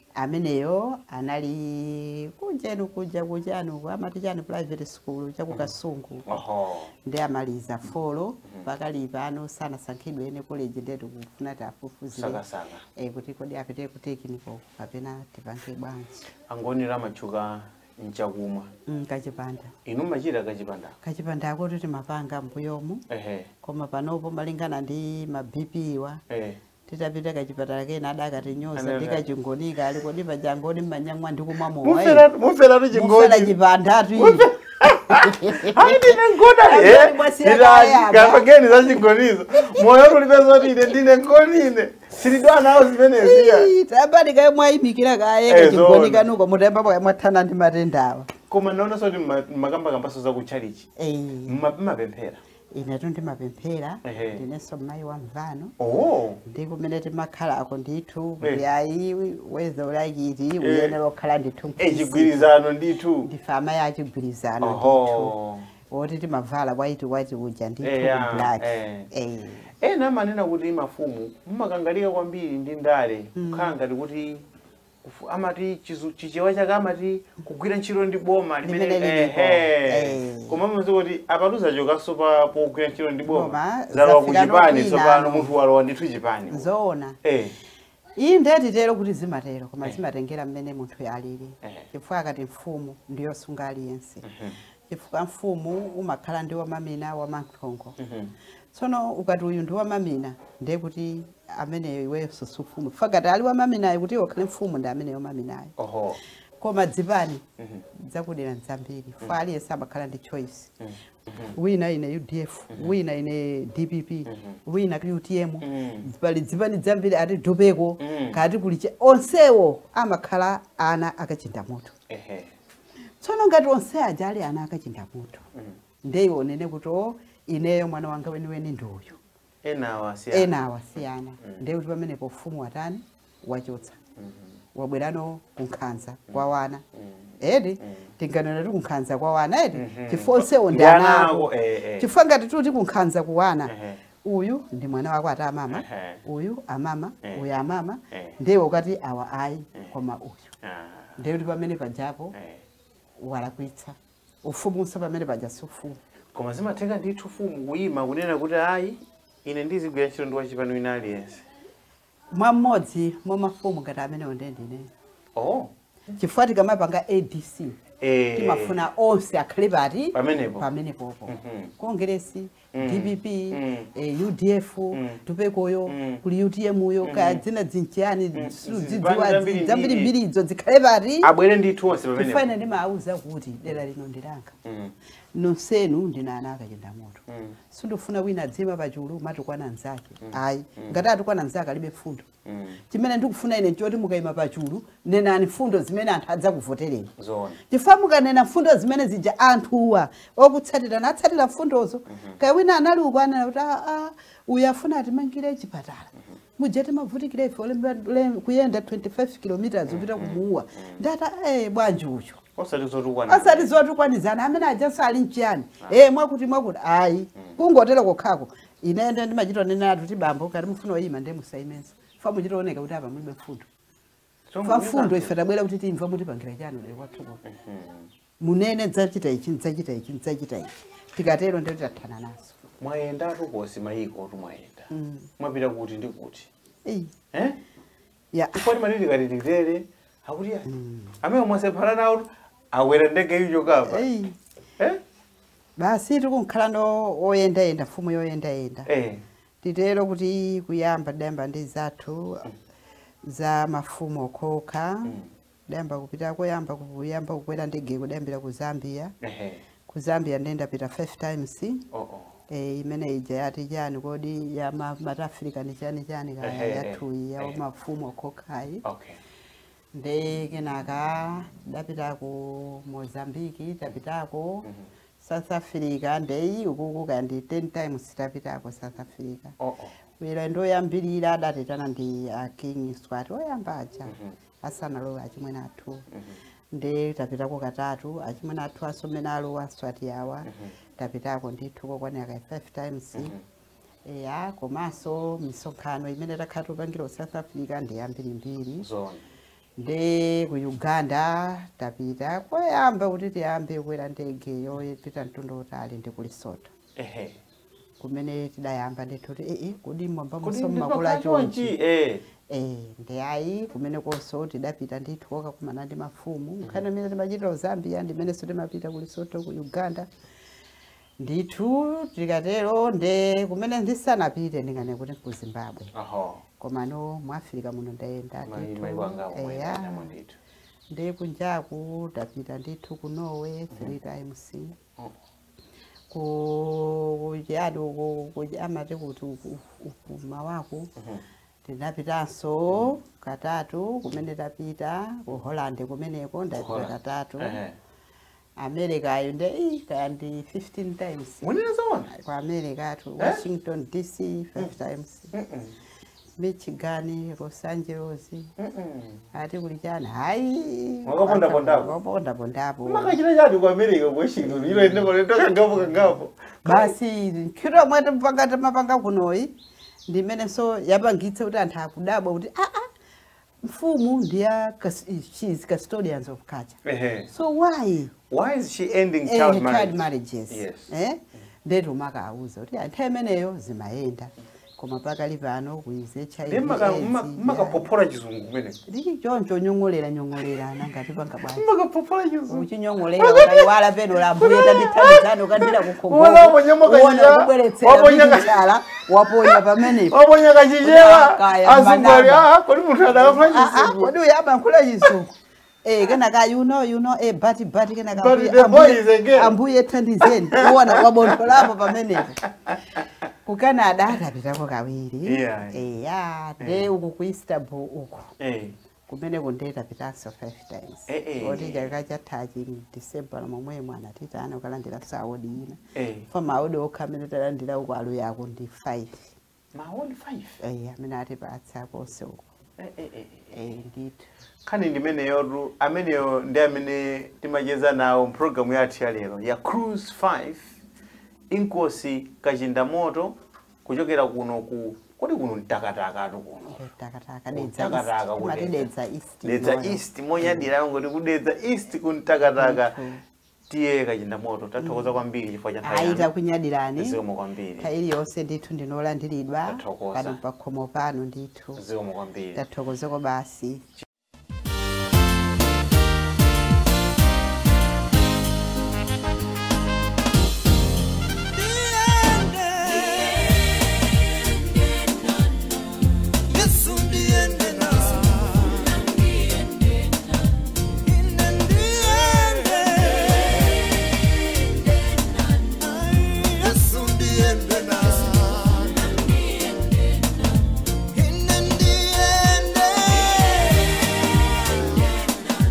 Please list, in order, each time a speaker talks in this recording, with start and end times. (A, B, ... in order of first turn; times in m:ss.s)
0:00.2-0:06.4 A
0:06.3-0:06.9 B
0:07.0-0:12.4 A
0:12.1-0:12.8 B
0:13.0-0:16.3 A
0:16.5-0:18.7 B
0:18.9-0:19.7 A
0:19.8-0:21.0 B
0:21.0-0:23.0 A
0:23.1-0:23.5 B
0:23.6-0:26.2 A
0:26.3-0:26.6 B
0:26.9-0:32.3 A
0:28.8-0:29.3 B
0:31.8-0:33.6 B
0:32.9-0:39.0 A
0:34.2-0:43.7 B
0:39.6-0:40.1 A
0:43.2-0:48.3 A
0:45.5-0:46.3 B
0:48.5-0:50.9 B
0:51.0-0:51.6 A
0:51.5-0:52.4 B
0:52.7-0:55.8 A
0:54.1-0:54.4 B
0:55.8-0:56.4 B
0:56.4-1:02.5 A
1:00.6-1:01.0 B
1:01.8-1:03.3 B
1:03.2-1:05.4 A
1:04.6-1:05.7 B
1:05.9-1:09.7 A
1:07.8-1:09.1 B
1:09.8-1:14.5 B
1:13.4-1:13.8 A
1:15.0-1:26.7 B
1:18.6-1:20.6 A
1:23.3-1:25.5 A
1:26.5-1:27.2 A
1:27.2-1:27.6 B
1:28.2-1:34.2 A
1:34.2-1:34.6 B
1:34.9-1:38.0 A
1:38.0-1:38.4 B
1:38.7-1:45.7 A
1:45.8-1:46.2 B
1:46.6-1:47.4 A
1:47.6-1:47.8 B
1:48.0-1:50.7 A
1:50.8-1:51.6 B
1:51.5-2:02.0 A
1:54.3-1:54.6 B
1:55.6-1:56.0 B
1:58.0-1:58.4 B
2:02.1-2:02.5 B
2:03.2-2:05.4 A
2:06.0-2:09.2 A
2:09.6-2:10.5 B
2:10.3-2:14.0 A
2:14.2-2:14.5 B
2:14.7-2:16.8 A
2:16.3-2:18.1 B
2:17.4-2:30.5 A
2:19.8-2:22.1 B
2:23.7-2:24.0 B
2:25.7-2:26.2 B
2:28.1-2:28.4 B
2:30.6-2:31.2 B
2:31.2-2:32.4 A
2:32.4-2:32.6 B
2:33.2-2:36.0 A
2:36.3-2:41.4 B
2:42.3-2:44.9 A
2:45.4-2:45.7 B
2:46.1-2:47.8 A
2:48.0-2:48.8 B
2:48.4-3:01.3 A
2:50.1-2:50.7 B
2:51.3-2:51.7 B
2:52.7-2:53.9 B
2:54.9-2:55.2 B
2:55.9-2:56.2 B
2:57.0-2:57.4 B
2:58.4-3:00.1 B
3:01.2-3:02.5 B
3:02.2-3:04.6 A
3:04.6-3:04.9 B
3:05.3-3:12.3 A
3:07.3-3:07.6 B
3:10.2-3:11.0 B
3:12.5-3:12.8 B
3:12.9-3:17.1 A
3:17.2-3:17.6 B
3:17.7-3:32.4 A
3:22.1-3:22.4 B
3:29.9-3:31.0 B
3:32.6-3:33.7 B
3:33.3-3:43.7 A
3:44.5-3:45.3 B
3:44.6-3:47.4 A
3:47.4-3:48.1 B
3:48.4-3:52.5 A
3:52.8-3:56.5 B
3:54.9-3:55.3 A
3:56.8-3:57.2 A
3:57.3-3:57.6 B
3:58.3-3:58.7 A
3:58.5-4:00.7 B
4:00.7-4:01.2 A
4:01.2-4:04.1 B
4:03.8-4:04.4 A
4:05.8-4:08.9 A
4:08.9-4:09.2 B
4:09.6-4:12.4 A
4:13.3-4:15.2 A
4:15.1-4:15.3 B
4:15.7-4:19.2 A
4:19.2-4:19.6 B
4:19.9-4:21.8 A
4:21.9-4:22.3 B
4:22.5-4:28.8 A
4:26.4-4:27.6 B
4:28.8-4:29.2 B
4:29.9-4:34.7 A
4:35.2-4:39.6 A
4:39.6-4:40.0 B
4:40.2-4:46.1 A
4:44.1-4:44.4 B
4:46.1-4:46.4 B
4:46.7-4:53.3 A
4:50.5-4:50.7 B
4:53.2-4:53.4 B
4:54.1-4:58.9 A
4:58.8-4:59.2 B
4:59.8-5:06.7 A
5:07.0-5:07.4 B
5:08.0-5:11.7 A
5:10.4-5:12.2 B
5:12.5-5:20.1 A
5:21.2-5:25.9 A
5:25.9-5:26.4 B
5:26.6-5:30.1 A
5:28.5-5:30.4 B
5:30.9-5:34.8 A
5:33.7-5:34.0 B
5:36.1-5:40.9 A
5:41.0-5:41.2 B
5:41.6-5:47.6 A
5:46.5-5:47.8 B
5:48.6-5:51.5 A
5:51.4-5:52.1 B
5:52.1-5:55.3 A
5:55.3-5:55.8 B
5:56.4-5:58.5 A
5:58.6-5:59.2 B
5:59.3-6:03.2 A
6:01.1-6:01.9 B
6:02.8-6:06.9 B
6:06.6-6:09.5 A
6:10.1-6:12.9 A
6:13.6-6:18.1 A
6:16.8-6:17.3 B
6:18.3-6:20.9 B
6:19.2-6:27.9 A
6:26.5-6:28.8 B
6:28.9-6:31.7 A
6:31.5-6:38.7 B
6:32.5-6:40.2 A
6:39.4-6:44.1 B
6:40.8-6:42.5 A
6:43.1-6:52.4 A
6:48.1-6:49.6 B
6:50.2-6:53.0 B
6:53.4-6:58.3 A
6:55.3-6:55.8 B
6:56.6-6:56.9 B
6:58.4-6:58.8 B
6:59.1-7:09.4 A
7:01.1-7:01.9 B
7:06.0-7:06.3 B
7:09.7-7:10.6 B
7:10.6-7:12.5 A
7:12.8-7:13.8 B
7:13.5-7:14.3 A
7:14.6-7:20.7 B
7:21.5-7:26.8 B
7:26.7-7:30.7 A
7:27.5-7:28.9 B
7:29.4-7:33.0 B
7:32.6-7:33.2 A
7:33.7-7:36.3 B
7:34.8-7:35.1 A
7:35.8-7:37.2 A
7:37.0-7:37.9 B
7:37.8-7:41.8 A
7:39.7-7:40.4 B
7:41.8-7:42.6 B
7:42.6-7:43.9 A
7:51.5-7:53.8 B
7:56.5-7:59.2 B
8:01.0-8:04.0 B
8:05.6-8:09.4 B
8:11.1-8:15.4 B